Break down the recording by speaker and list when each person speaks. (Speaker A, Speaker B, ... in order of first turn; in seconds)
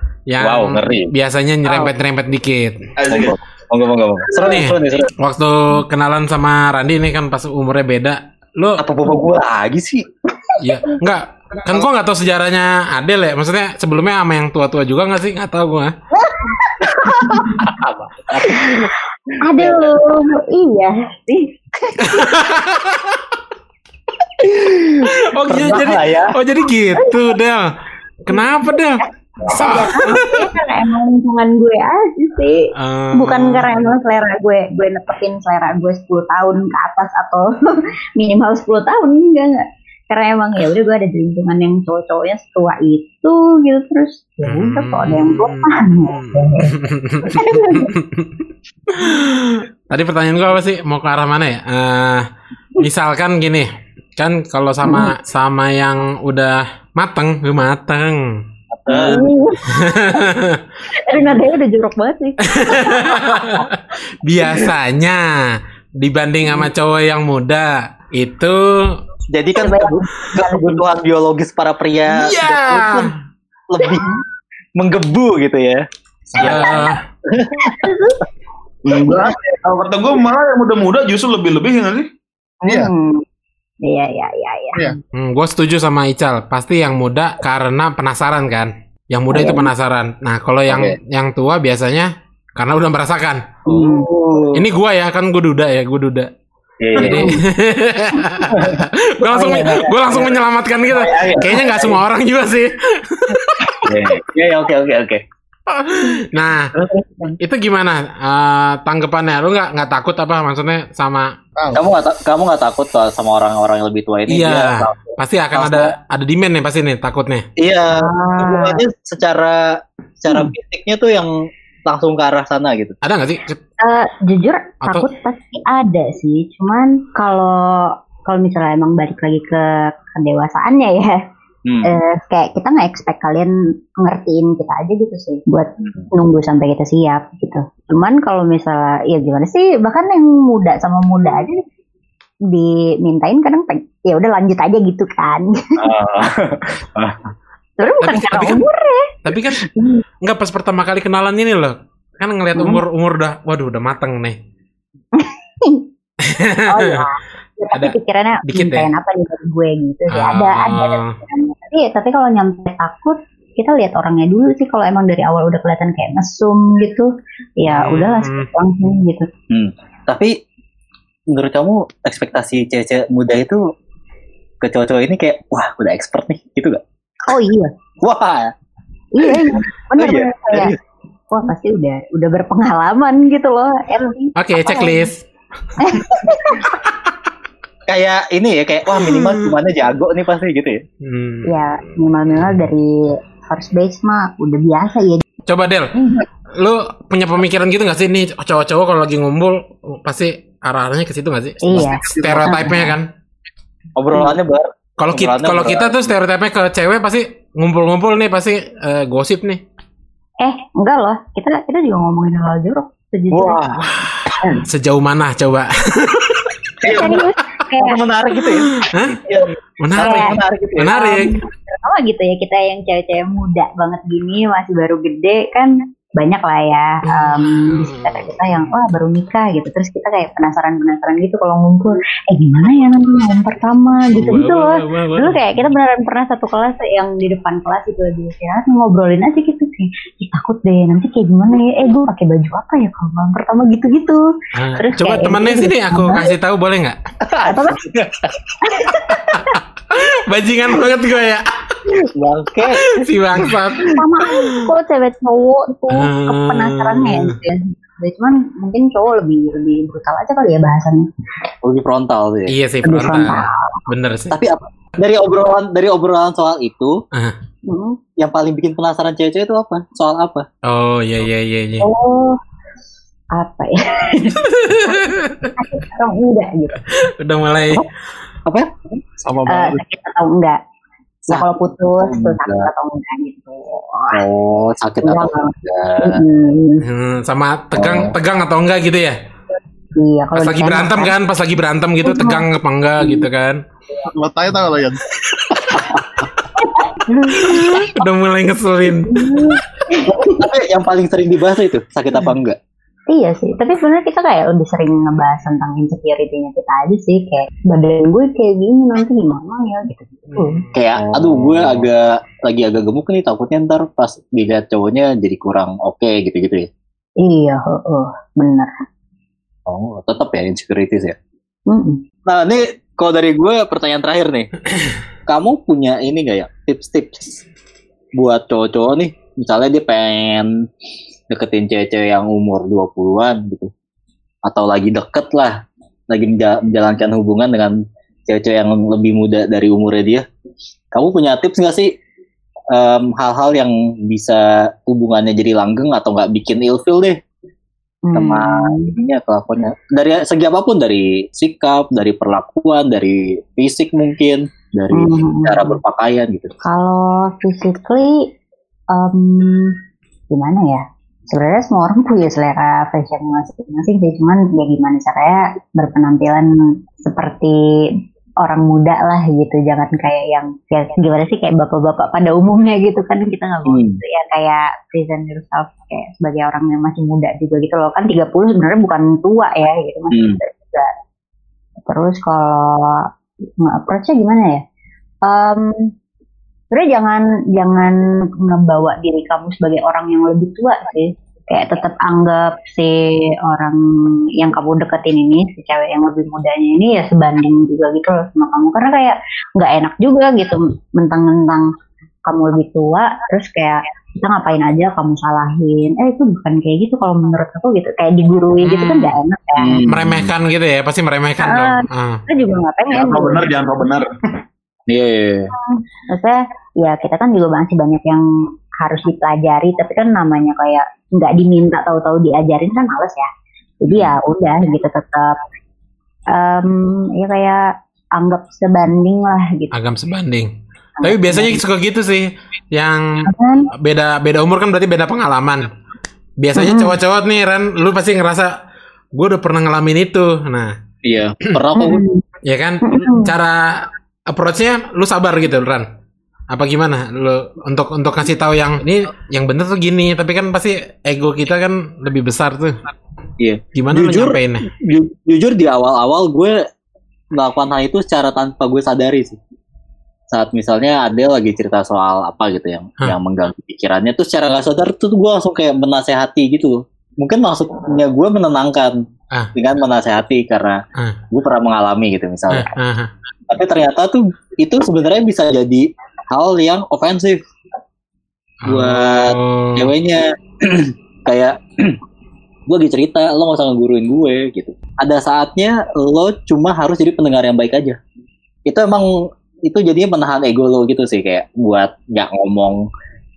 Speaker A: 0.3-2.8, 4.4-8.8, 10.6-15.9, 22.0-23.2, 25.1-27.7, 28.2-30.5, 32.8-33.8, 44.4-48.3, 48.9-58.4, 59.0-60.6, 62.5-69.0, 72.1-73.1, 76.4-77.0, 85.1-93.4, 94.5-96.3, 97.0-103.9, 105.7-106.7, 107.4-111.3, 114.3-117.5, 123.0-123.6, 148.0-148.6, 149.2-149.6, 150.2-154.4, 156.2-157.1, 157.7-158.9, 160.1-161.2, 167.7-168.5, 184.4-185.2, 188.9-189.5, 191.0-191.5, 195.4-195.9, 196.6-203.1, 205.0-209.6, 214.6-216.5, 218.7-221.4, 227.0-228.6, 234.1-235.7, 244.6-247.0, 249.3-251.4, 252.8-254.6, 255.9-257.4, 262.5-264.4, 270.6-271.9, 274.4-275.5, 277.0-277.8, 286.8-289.1, 290.3-293.6, 297.3-299.4, 310.3-310.7, 408.6-409.2, 409.9-412.2, 429.7-435.7, 436.4-438.6, 439.1-440.7, 442.4-445.9, 446.5-452.8, 453.7-454.7, 472.5-473.1, 478.6-479.9
Speaker B: 0.4-1.1, 3.1-5.1, 8.8-10.1, 16.8-18.9, 19.6-19.9, 24.4-26.4, 58.7-59.2, 69.3-73.1, 73.7-74.1, 74.8-75.8, 76.3-77.9, 90.7-91.0, 93.7-94.6, 96.8-97.4, 98.5-98.8, 100.9-102.0, 103.8-105.2, 106.7-107.3, 111.7-115.9, 117.6-119.6, 120.2-121.3, 121.9-123.0, 131.7-132.0, 135.8-136.1, 145.8-147.3, 169.5-170.3, 171.3-173.6, 174.6-176.8, 178.0-178.5, 179.2-180.8, 187.9-190.8, 204.0-206.1, 213.3-214.3, 216.8-221.0, 247.2-248.7, 251.9-253.9, 261.6-262.5, 264.3-267.0, 268.2-270.4, 281.3-282.7, 284.1-286.2, 287.8-288.1, 295.7-296.0, 300.1-302.6, 310.7-316.7, 319.7-321.2, 322.2-324.5, 325.3-327.4, 328.2-330.5, 331.3-333.7, 334.4-337.8, 338.3-340.2, 340.9-341.9, 342.7-347.2, 348.1-356.6, 373.6-374.0, 380.1-380.4, 409.6-410.3, 414.9-415.5, 423.9-424.1, 441.0-442.0, 453.4-456.6, 457.4-459.4, 460.3-469.0, 469.5-470.8, 471.3-472.7, 473.5-477.4, 478.6-482.0, 482.7-488.0, 488.7-489.1, 489.6-492.8
Speaker C: 3.0-3.4, 78.8-82.1, 412.9-414.1
Speaker D: 16.2-17.6, 18.4-18.9, 19.4-22.3, 27.0-27.3, 29.4-47.9, 54.8-55.1, 58.9-60.3, 60.9-63.6, 69.5-70.8, 73.8-74.2, 77.6-78.2, 82.6-83.2, 83.8-85.0, 89.3-89.7, 93.7-94.1, 99.2-100.3, 118.0-118.8, 123.8-131.2, 131.8-141.6, 142.5-145.8, 147.8-149.1, 149.7-150.0, 152.5-152.8, 155.1-155.8, 156.7-169.3, 177.3-177.7, 179.1-180.7, 181.3-185.1, 185.8-186.8, 191.4-195.2, 195.9-196.2, 201.6-202.9, 210.4-213.7, 216.8-218.0, 220.0-220.4, 220.9-246.2, 247.5-247.8, 248.6-249.6, 253.8-261.1, 262.8-263.8, 267.6-268.0, 271.8-272.4, 273.3-276.9, 279.5-280.6, 281.3-284.2, 285.0-286.8, 289.9-291.1, 292.0-292.4, 293.0-293.3, 296.9-298.0, 298.9-300.4, 303.1-310.7, 317.2-318.7, 321.7-322.0, 348.1-348.9, 354.9-355.8, 356.6-358.3, 358.9-359.8, 360.3-367.6, 368.4-380.9, 381.9-383.1, 383.6-384.6, 385.3-385.9, 386.7-393.9, 394.4-401.7, 402.2-409.8, 411.4-413.5, 415.6-418.2, 418.8-423.3, 423.8-425.4, 426.3-429.7, 431.0-431.6, 433.2-433.7, 436.6-437.0, 441.7-442.2, 442.8-443.3
Speaker E: 76.3-76.9, 82.7-82.9, 111.6-111.8, 201.7-202.6, 279.2-279.8, 294.0-295.0